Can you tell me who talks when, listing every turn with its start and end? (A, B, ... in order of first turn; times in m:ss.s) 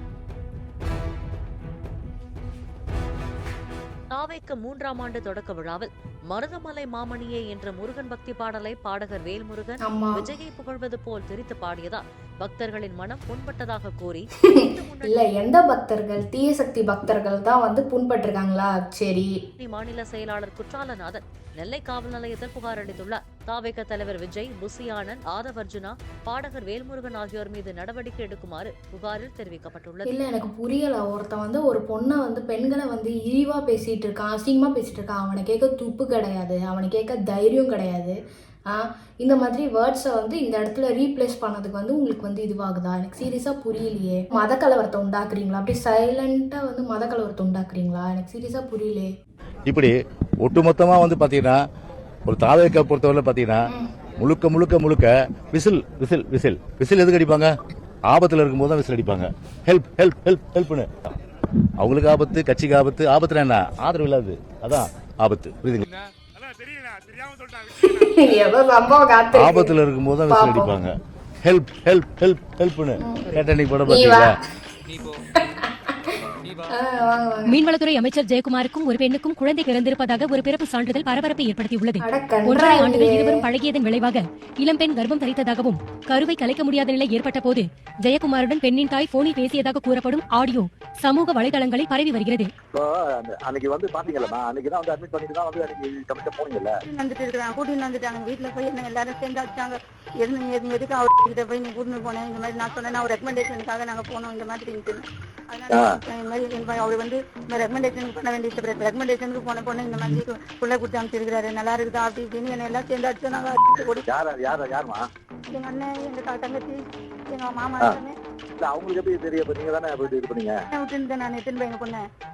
0:04.1-0:15.3 A
0:09.8-0:10.2 B
0:15.0-0:19.3 B
0:19.6-0:30.1 A
0:30.1-0:38.2 B
0:38.7-0:49.1 B
0:49.7-0:51.6 C
0:52.2-0:53.6 C
0:54.2-0:57.5 C
0:58.1-1:00.9 C
1:01.8-1:05.9 C
1:07.8-1:09.8 B
1:09.3-1:10.9 C
1:10.3-1:10.7 B
1:11.4-1:14.3 C
1:13.0-1:14.3 B
1:15.3-1:16.2 B
1:16.7-1:17.6 B
1:17.5-1:32.5 D
1:22.0-1:23.5 B
1:32.7-1:36.7 E
1:36.9-1:39.7 F
1:40.2-1:45.0 F
1:45.5-1:54.0 F
1:45.7-1:46.0 E
1:54.0-1:55.0 E
1:55.5-1:56.7 F
1:57.3-1:58.1 F
1:58.6-2:00.6 E
2:00.7-2:02.0 F